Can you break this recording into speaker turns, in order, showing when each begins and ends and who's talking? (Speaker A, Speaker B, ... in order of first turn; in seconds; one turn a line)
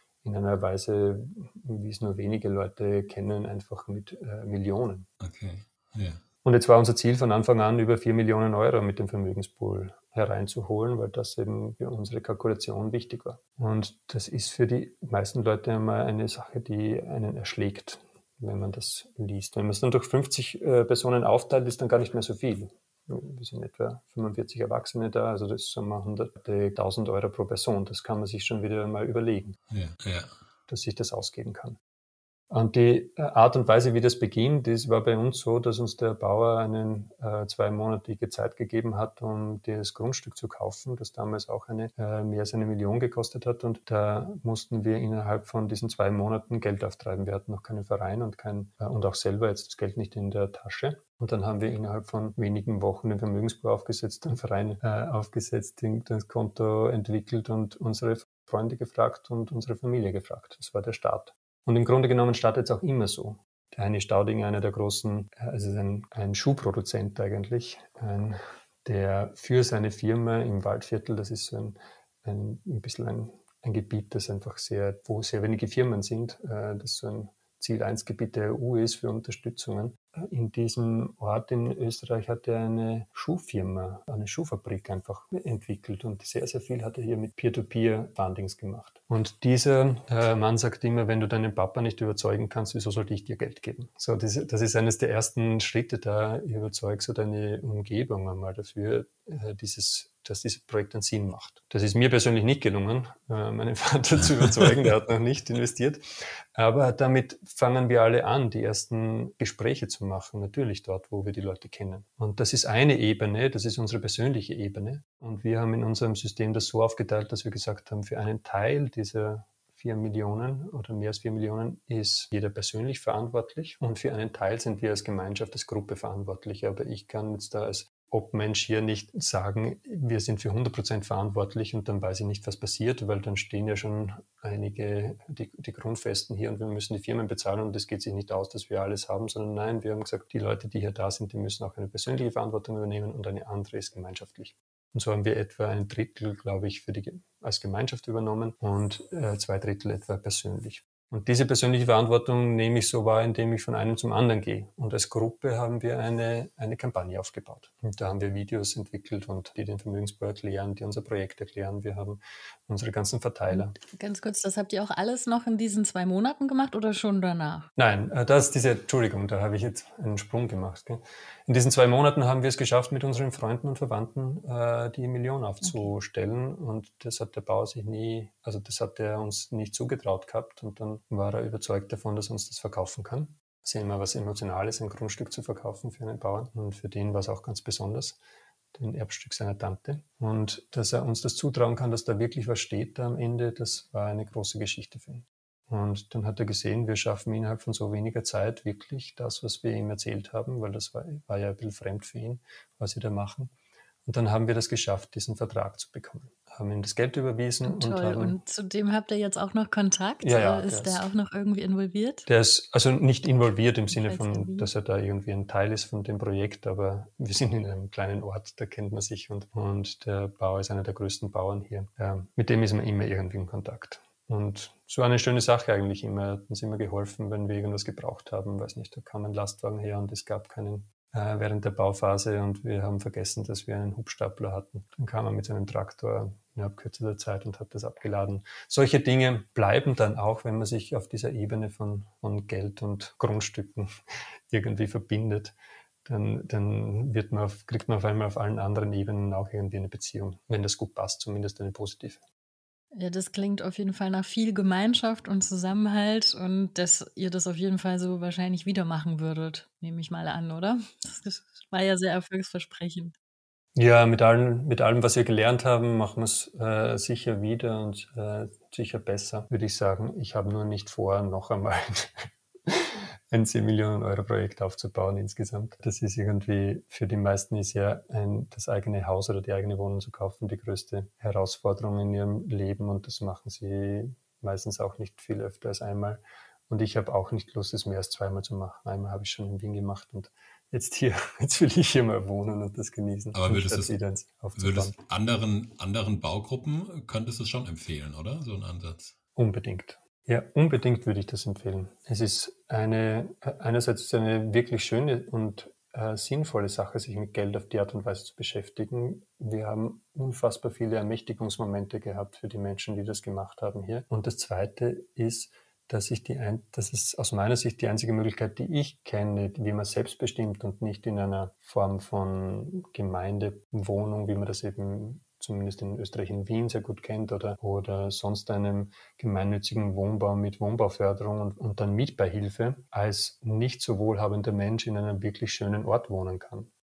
Speaker A: 0.2-5.1
Speaker B: 5.2-6.2
Speaker A: 6.4-29.6
Speaker B: 29.7-30.4
Speaker A: 30.7-31.8
Speaker A: 32.5-106.0
Speaker A: 106.5-163.8
Speaker C: 163.5-167.7
Speaker A: 167.8-188.2
Speaker C: 175.6-175.9
Speaker A: 188.7-203.5
Speaker A: 204.1-208.4
Speaker C: 207.6-212.3
Speaker A: 210.2-211.1
Speaker A: 212.3-243.9
Speaker C: 213.9-214.7
Speaker A: 244.5-245.6
Speaker A: 246.1-252.2
Speaker C: 252.9-263.1
Speaker A: 263.8-294.9
Speaker B: 293.3-294.0
Speaker B: 294.6-299.1
Speaker A: 299.4-336.7